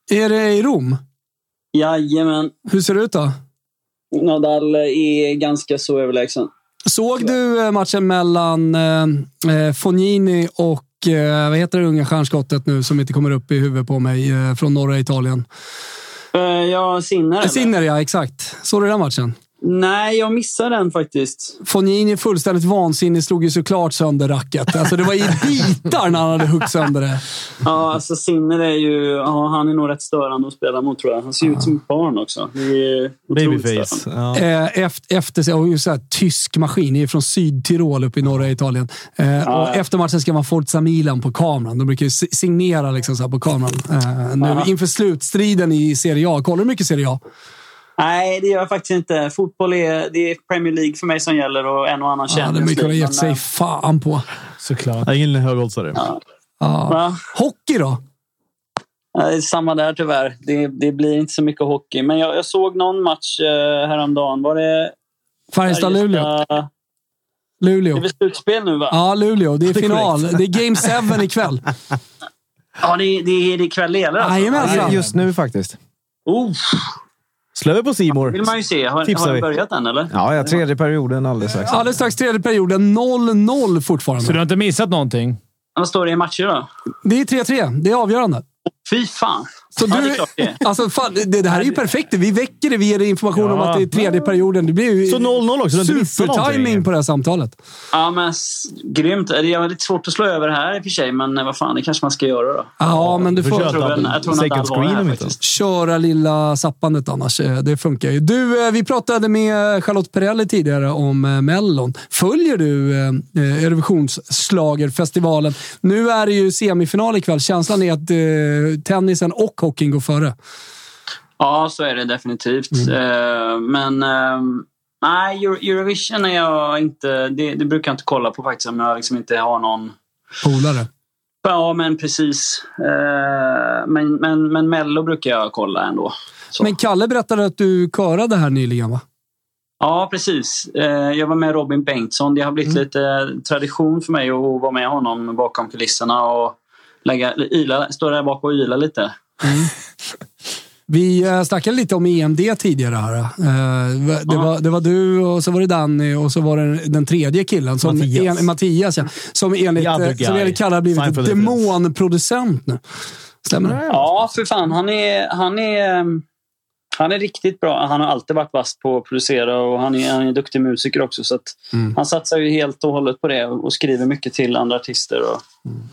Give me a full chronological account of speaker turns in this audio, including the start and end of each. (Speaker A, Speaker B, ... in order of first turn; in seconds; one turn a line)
Speaker A: 0.1-1.0
Speaker B: 1.7-2.5
Speaker A: 2.7-3.3
Speaker B: 4.1-6.5
Speaker A: 6.9-15.4
Speaker B: 16.3-17.7
Speaker A: 17.4-19.3
Speaker B: 19.6-21.6
Speaker A: 21.6-27.2
Speaker B: 27.6-34.0
Speaker C: 33.3-34.4
Speaker A: 34.3-47.2
Speaker B: 39.4-39.8
Speaker B: 44.4-44.7
Speaker B: 48.0-53.4
Speaker A: 52.3-54.2
Speaker D: 54.6-55.1
Speaker C: 55.0-56.0
Speaker A: 56.6-58.0
Speaker B: 56.9-57.2
Speaker B: 59.1-64.9
Speaker A: 65.5-66.3
Speaker B: 65.6-66.7
Speaker A: 67.6-68.0
Speaker B: 67.9-69.0
Speaker A: 68.9-71.6
Speaker C: 69.7-70.3
Speaker B: 72.8-75.0
Speaker A: 74.2-75.0
Speaker E: 74.7-75.8
Speaker B: 76.2-76.9
Speaker C: 77.5-78.4
Speaker B: 78.2-80.6
Speaker C: 79.0-79.5
Speaker E: 80.1-81.8
Speaker A: 81.6-84.4
Speaker D: 84.2-85.4
Speaker B: 85.8-86.7
Speaker A: 87.0-88.4
Speaker B: 88.8-90.6
Speaker A: 89.8-97.5
Speaker D: 93.3-93.9
Speaker C: 95.1-96.8
Speaker B: 97.9-102.7
Speaker A: 102.8-104.0
Speaker C: 102.9-105.3
Speaker B: 103.5-105.4
Speaker A: 105.4-120.3
Speaker B: 121.4-129.9
Speaker A: 130.4-130.9
Speaker B: 131.4-136.7
Speaker A: 136.6-139.0
Speaker B: 139.8-149.1
Speaker A: 149.4-149.7
Speaker A: 150.9-162.8
Speaker C: 157.8-158.5
Speaker C: 159.8-161.7
Speaker A: 163.4-163.8
Speaker E: 163.7-164.1
Speaker B: 163.9-166.2
Speaker B: 167.0-175.4